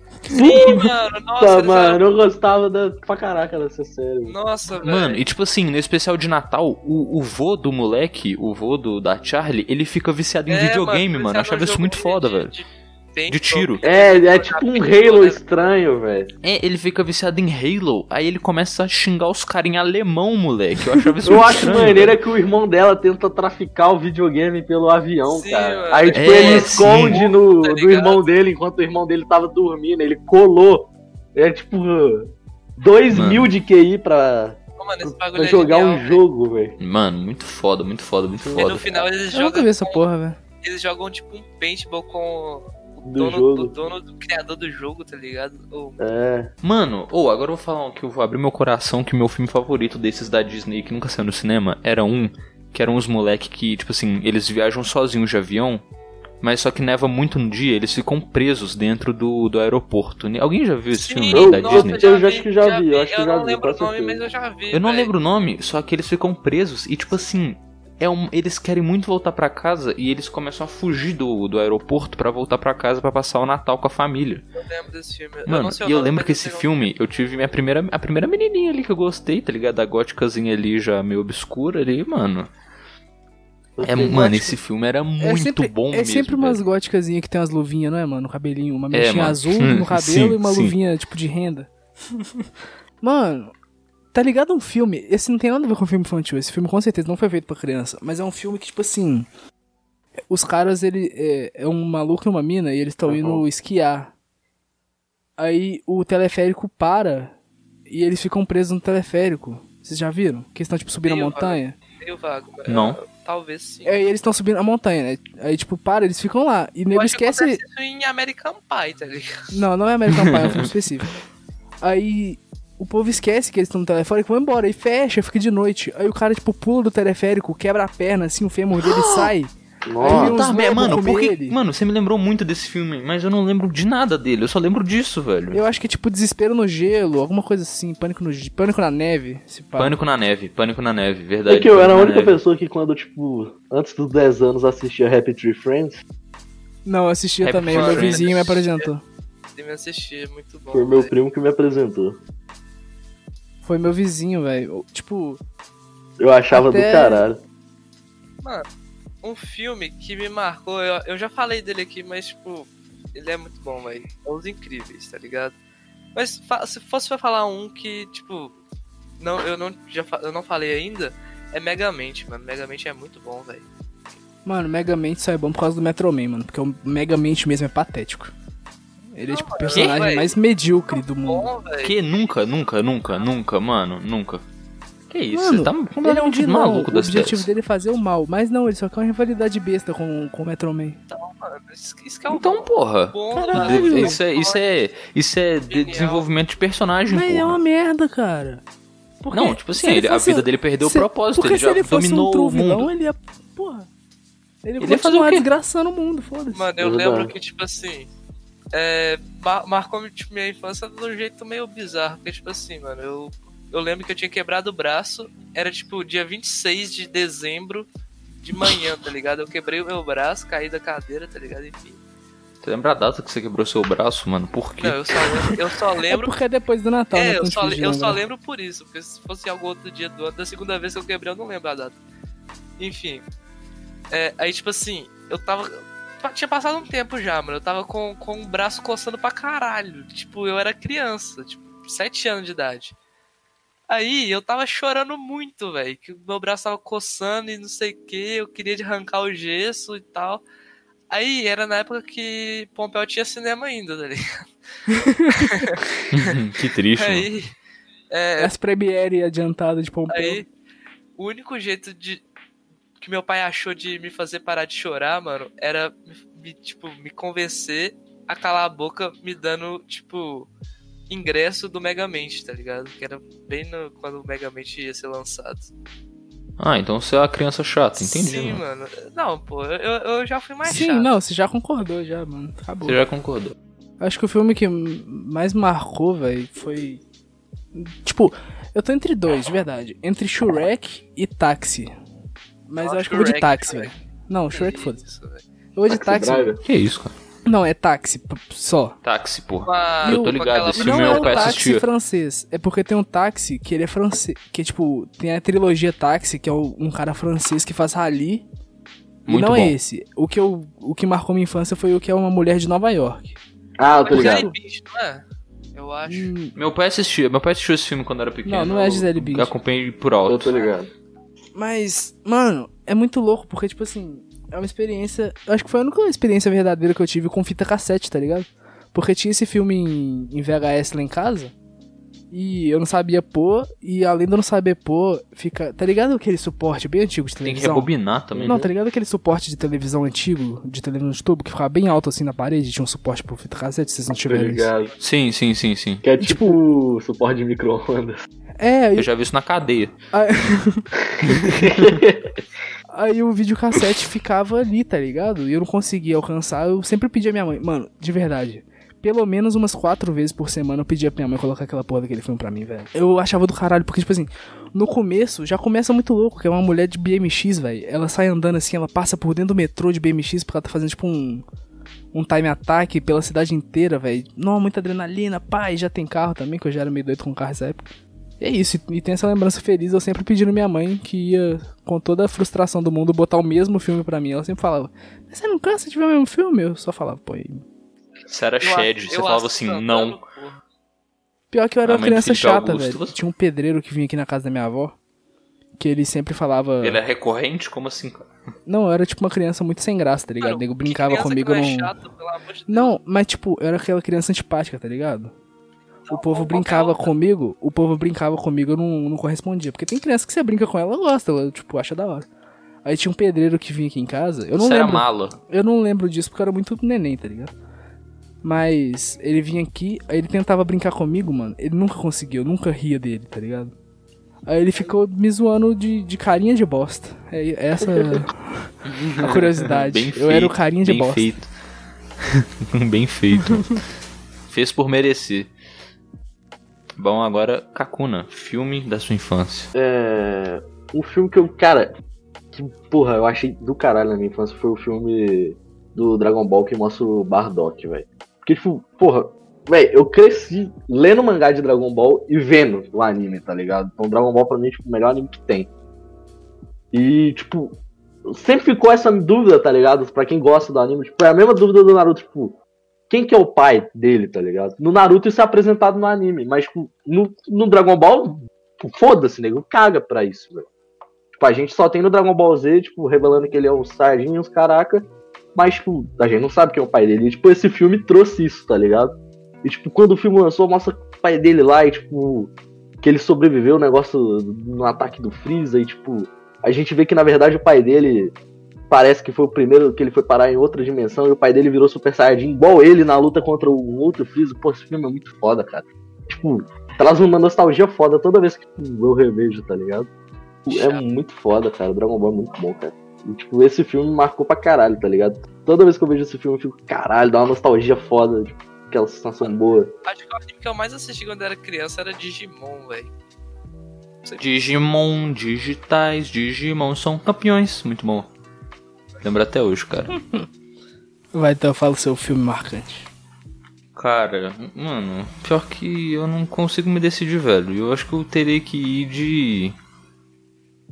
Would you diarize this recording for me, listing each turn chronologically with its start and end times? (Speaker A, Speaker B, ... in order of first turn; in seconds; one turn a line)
Speaker A: 0.3-0.9
Speaker B: 0.3-0.9
Speaker C: 0.3-2.0
Speaker B: 1.4-4.3
Speaker C: 4.2-5.2
Speaker D: 4.8-12.5
Speaker C: 10.5-15.4
Speaker D: 13.3-13.8
Speaker B: 13.8-16.3
Speaker D: 16.4-22.2
Speaker B: 21.2-36.8
Speaker C: 25.3-28.3
Speaker D: 26.1-27.2
Speaker D: 33.1-33.5
Speaker C: 34.8-36.2
Speaker D: 36.8-39.0
Speaker B: 38.4-38.8
Speaker C: 38.5-40.0
Speaker A: 39.3-40.4
Speaker C: 40.6-46.0
Speaker B: 43.1-43.7
Speaker B: 46.0-46.5
Speaker D: 46.6-55.8
Speaker D: 56.4-62.1
Speaker C: 60.9-65.1
Speaker B: 61.3-64.2
Speaker D: 64.7-74.5
Speaker C: 74.5-76.9
Speaker D: 75.5-82.5
Speaker B: 83.8-84.6
Speaker D: 83.8-86.6
Speaker A: 85.2-92.5
Speaker D: 88.9-90.8
Speaker A: 93.0-93.5
Speaker A: 94.1-99.3
Speaker A: 100.3-104.1
Speaker B: 103.1-103.5
Speaker A: 105.4-107.3
Speaker A: 107.9-111.8
Speaker C: 111.0-114.1
Speaker D: 112.7-113.0
Speaker A: 113.8-117.6
Speaker C: 116.9-119.5
Speaker A: 119.5-121.1
Speaker D: 120.3-120.7
Speaker A: 121.8-131.6
Speaker D: 128.8-129.3
Speaker B: 129.8-130.5
Speaker D: 130.1-135.6
Speaker A: 135.5-140.0
Speaker D: 139.8-142.4
Speaker B: 141.5-146.0
Speaker A: 146.8-149.0
Speaker D: 147.4-148.6
Speaker C: 147.7-148.9
Speaker C: 149.6-151.1
Speaker B: 150.7-152.2
Speaker A: 153.6-155.4
Speaker B: 156.2-157.4
Speaker A: 156.5-157.2
Speaker C: 159.2-165.6
Speaker C: 166.2-168.6
Speaker C: 169.2-173.7
Speaker A: 174.4-178.3
Speaker A: 179.1-181.5
Speaker C: 179.3-180.4
Speaker C: 180.9-182.2
Speaker D: 181.8-184.4
Speaker D: 185.1-187.5
Speaker A: 185.3-191.0
Speaker C: 191.1-194.6
Speaker D: 192.3-197.6
Speaker A: 193.3-194.2
Speaker C: 195.7-196.3
Speaker A: 197.1-198.6
Speaker A: 199.2-203.9
Speaker D: 199.3-202.9
Speaker A: 204.6-206.7
Speaker D: 204.8-205.5
Speaker C: 206.5-208.1
Speaker B: 206.8-207.3
Speaker C: 208.7-217.9
Speaker C: 218.4-222.0
Speaker D: 222.6-225.6
Speaker C: 224.8-226.3
Speaker A: 226.1-228.2
Speaker C: 227.1-232.0
Speaker C: 232.8-233.2
Speaker C: 234.1-242.9
Speaker C: 243.9-250.4
Speaker C: 251.1-254.5
Speaker A: 254.9-255.7
Speaker C: 255.3-256.4
Speaker D: 256.1-257.3
Speaker C: 257.0-257.5
Speaker C: 258.1-258.5
Speaker A: 258.4-260.4
Speaker C: 260.1-260.5
Speaker C: 261.2-262.2
Speaker C: 263.0-270.5
Speaker C: 271.1-275.7
Speaker D: 276.6-278.6
Speaker C: 278.0-281.1
Speaker A: 280.6-283.0
Speaker D: 282.9-283.6
Speaker A: 284.0-287.0
Speaker A: 287.7-291.9
Speaker A: 292.7-295.0
Speaker C: 292.8-293.9
Speaker C: 294.5-295.4
Speaker A: 295.8-296.5
Speaker B: 295.9-296.6
Speaker D: 296.6-297.2
Speaker A: 297.5-299.0
Speaker D: 299.0-301.9
Speaker C: 299.6-301.7
Speaker A: 300.1-308.4
Speaker D: 309.3-309.8
Speaker A: 309.3-313.4
Speaker B: 313.8-314.5
Speaker C: 313.9-315.2
Speaker A: 314.1-314.6
Speaker C: 315.8-316.3
Speaker A: 316.1-316.5
Speaker D: 316.6-320.5
Speaker A: 318.4-319.5
Speaker B: 320.3-320.9
Speaker A: 321.6-331.5
Speaker A: 332.3-337.9
Speaker D: 337.4-338.7
Speaker B: 338.3-338.7
Speaker A: 338.4-344.7
Speaker B: 344.3-344.9
Speaker D: 345.0-346.0
Speaker B: 346.0-348.2
Speaker A: 346.2-346.6
Speaker A: 348.6-349.1
Speaker D: 349.0-349.9
Speaker A: 350.1-350.9
Speaker B: 351.1-352.4
Speaker D: 351.2-352.0
Speaker A: 352.9-371.4
Speaker A: 372.1-377.9
Speaker A: 378.4-387.6
Speaker D: 388.3-390.2
Speaker C: 388.6-390.6
Speaker A: 391.5-394.9
Speaker D: 391.9-393.1
Speaker A: 395.8-397.0
Speaker D: 396.8-398.3
Speaker A: 398.7-401.9
Speaker C: 400.4-403.0
Speaker A: 402.7-405.3
Speaker C: 406.1-407.1
Speaker A: 406.1-412.3
Speaker A: 412.8-417.5
Speaker D: 414.6-415.4
Speaker A: 418.4-423.7
Speaker A: 424.5-431.3
Speaker B: 427.8-428.3
Speaker D: 428.9-431.5
Speaker D: 432.2-433.8
Speaker D: 434.5-435.5
Speaker D: 437.0-439.7
Speaker B: 439.7-441.9
Speaker B: 442.5-455.7
Speaker B: 456.9-462.6
Speaker B: 463.1-470.7
Speaker B: 471.3-488.4
Speaker B: 488.9-500.1
Speaker B: 500.7-509.9
Speaker C: 500.7-501.0
Speaker C: 510.1-513.1
Speaker D: 514.4-518.3
Speaker D: 519.2-520.1
Speaker A: 520.1-520.5
Speaker A: 521.3-523.1
Speaker D: 524.0-529.8